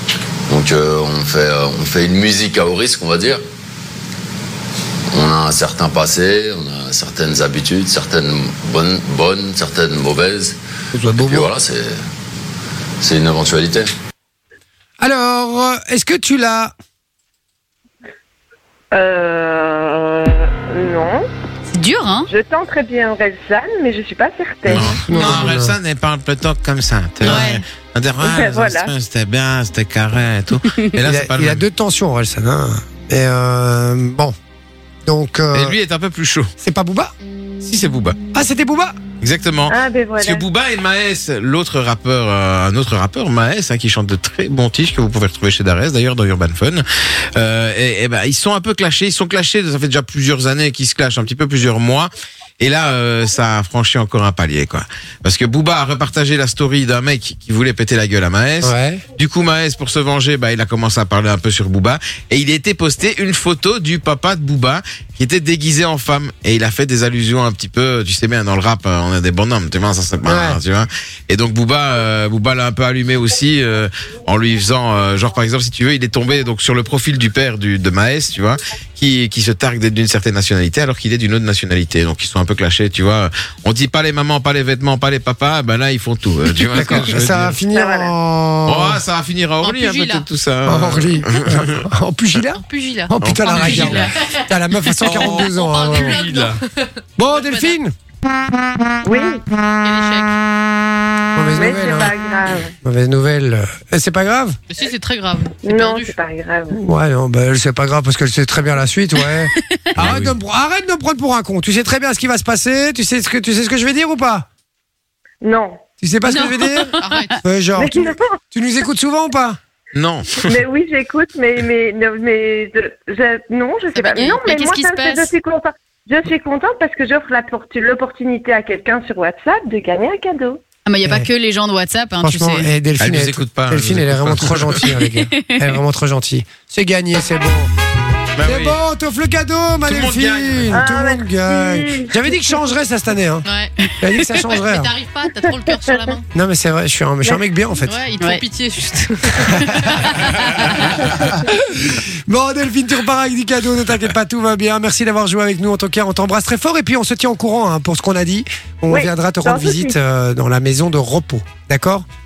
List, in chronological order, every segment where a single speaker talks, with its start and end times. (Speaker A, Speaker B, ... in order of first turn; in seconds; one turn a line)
Speaker A: 0.5-3.4
Speaker A: 5.1-10.6
Speaker B: 10.9-11.5
Speaker A: 11.1-12.0
Speaker A: 13.0-13.9
Speaker B: 15.0-16.7
Speaker C: 18.9-21.3
Speaker D: 21.7-22.3
Speaker C: 22.3-25.3
Speaker B: 24.7-25.8
Speaker E: 24.7-31.6
Speaker D: 27.2-27.6
Speaker C: 28.2-28.9
Speaker B: 31.0-34.3
Speaker B: 35.0-35.8
Speaker E: 35.5-36.5
Speaker B: 36.6-37.1
Speaker E: 37.6-38.2
Speaker B: 38.3-39.0
Speaker E: 39.2-52.1
Speaker C: 39.7-40.4
Speaker E: 52.6-87.6
Speaker B: 58.6-59.0
Speaker B: 70.2-70.6
Speaker B: 86.5-89.0
Speaker C: 87.7-88.1
Speaker E: 88.7-91.8
Speaker F: 89.6-90.2
Speaker B: 90.6-96.2
Speaker F: 92.5-94.5
Speaker E: 93.2-94.1
Speaker E: 95.0-96.6
Speaker F: 95.0-97.8
Speaker B: 97.2-97.9
Speaker C: 99.0-99.4
Speaker F: 99.8-100.4
Speaker B: 101.3-102.1
Speaker C: 101.5-102.7
Speaker B: 102.8-104.6
Speaker F: 104.7-106.1
Speaker C: 105.6-106.8
Speaker B: 106.7-114.5
Speaker E: 110.0-110.3
Speaker C: 115.4-115.8
Speaker B: 116.0-119.6
Speaker D: 116.2-117.4
Speaker F: 117.0-117.4
Speaker C: 117.8-118.4
Speaker E: 119.9-120.6
Speaker C: 120.4-130.6
Speaker D: 124.0-125.3
Speaker D: 130.9-132.7
Speaker B: 132.2-137.7
Speaker E: 133.0-134.8
Speaker D: 135.0-135.6
Speaker E: 138.3-138.8
Speaker B: 138.4-143.5
Speaker E: 139.8-140.8
Speaker C: 140.7-142.7
Speaker F: 143.4-143.9
Speaker B: 144.0-144.9
Speaker F: 144.5-146.2
Speaker B: 146.3-147.9
Speaker F: 147.8-151.0
Speaker B: 149.4-150.0
Speaker D: 150.2-150.5
Speaker B: 151.3-162.1
Speaker C: 158.9-159.9